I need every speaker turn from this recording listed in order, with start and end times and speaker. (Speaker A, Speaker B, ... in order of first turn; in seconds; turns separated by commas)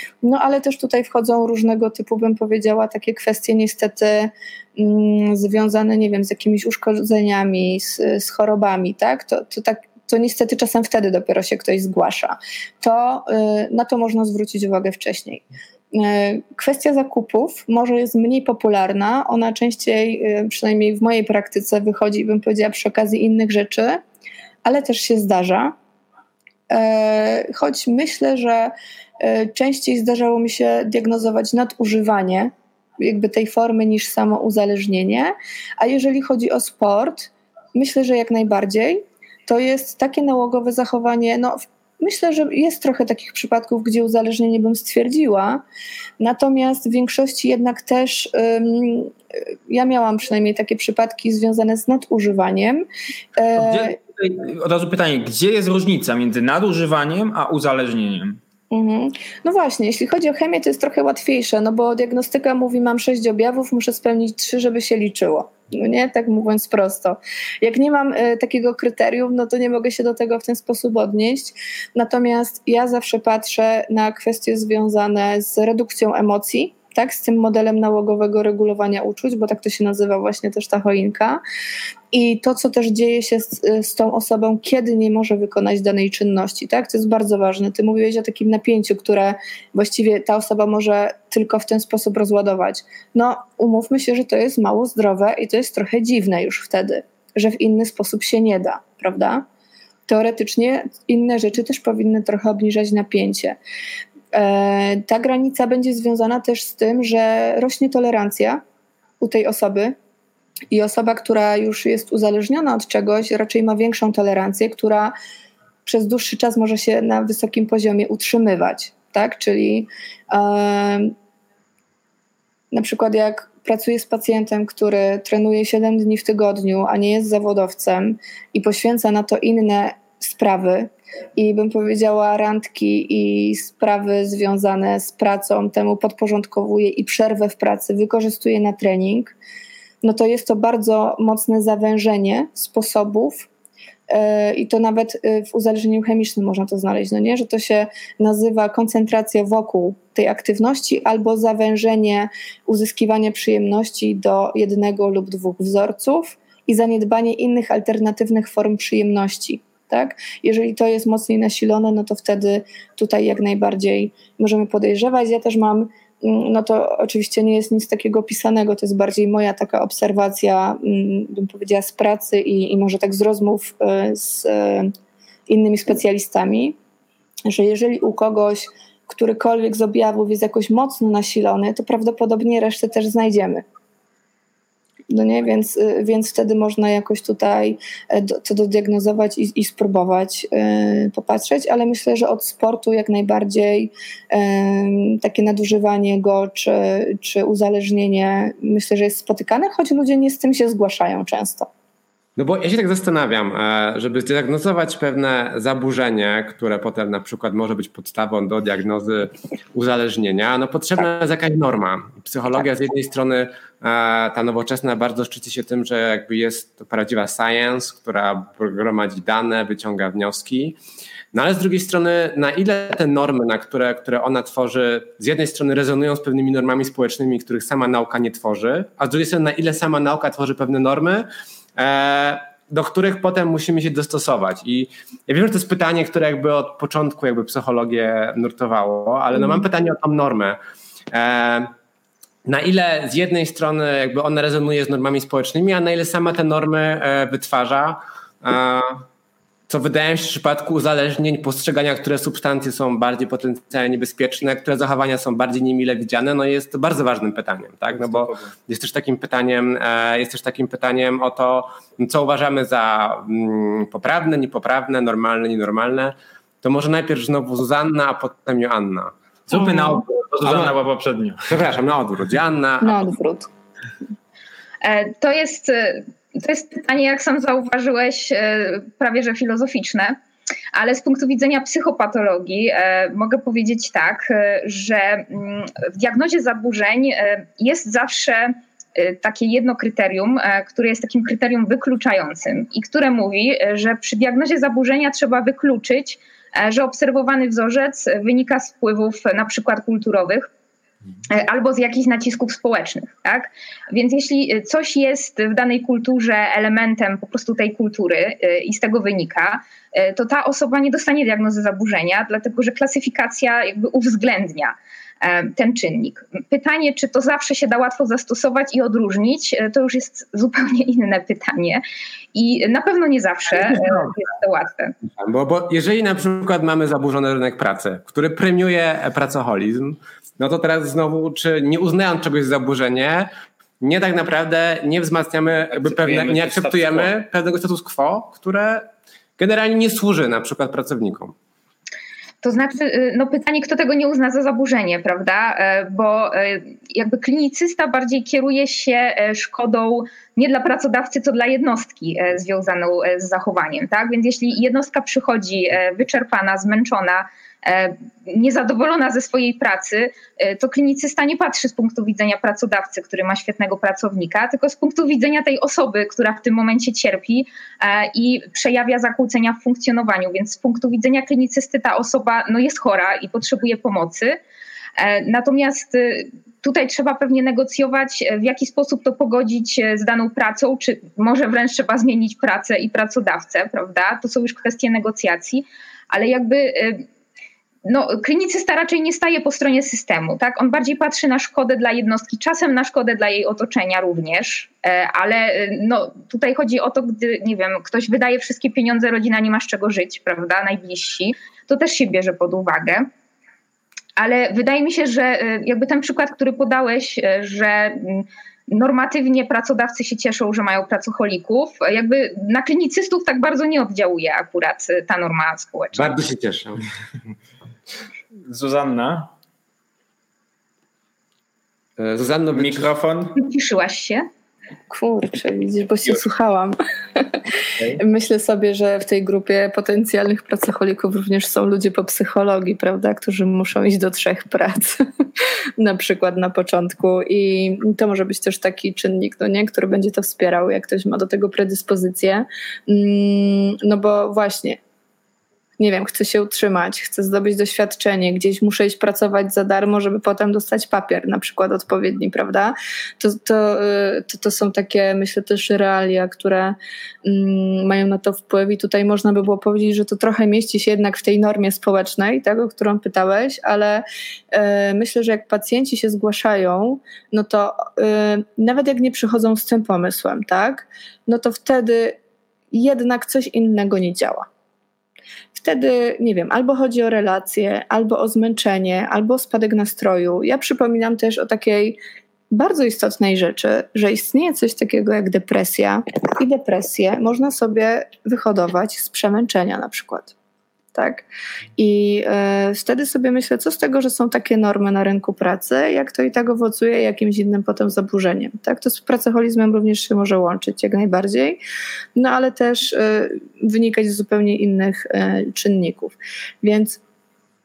Speaker A: 0.2-24.0, Speaker A: 24.6-25.8, Speaker A: 26.7-45.6, Speaker A: 46.2-49.1, Speaker A: 49.7-52.9, Speaker A: 53.4-54.0, Speaker B: 53.6-58.4, Speaker A: 58.7-81.4, Speaker A: 82.1-99.4, Speaker A: 100.1-103.6, Speaker A: 104.3-108.6, Speaker A: 109.2-109.9, Speaker A: 110.7-115.1, Speaker A: 115.9-121.1, Speaker A: 122.7-139.3, Speaker A: 140.0-143.5, Speaker A: 144.1-174.9, Speaker A: 175.5-176.8, Speaker A: 177.5-183.6, Speaker A: 185.1-201.7, Speaker C: 202.4-220.8, Speaker C: 221.3-240.6, Speaker C: 241.1-241.7, Speaker C: 242.4-249.1, Speaker C: 249.7-269.1, Speaker B: 258.0-258.5, Speaker B: 269.5-271.5, Speaker A: 269.5-270.0, Speaker C: 270.4-270.7, Speaker C: 271.4-273.1, Speaker A: 272.8-273.5, Speaker D: 274.8-280.2, Speaker D: 280.7-300.5, Speaker D: 301.3-321.8, Speaker D: 322.3-324.9, Speaker C: 325.0-341.3, Speaker B: 335.7-337.1, Speaker D: 342.4-374.4, Speaker D: 375.0-387.1, Speaker D: 387.9-403.1, Speaker D: 404.2-416.1, Speaker C: 415.9-416.9, Speaker B: 418.4-419.3, Speaker C: 422.0-422.9, Speaker B: 422.5-423.4, Speaker D: 423.4-424.3, Speaker A: 424.9-427.4, Speaker A: 428.0-444.8, Speaker A: 445.8-472.2, Speaker A: 472.7-474.5, Speaker A: 475.6-482.0, Speaker A: 482.5-490.3, Speaker A: 490.9-491.3, Speaker A: 491.8-501.6, Speaker A: 502.2-507.0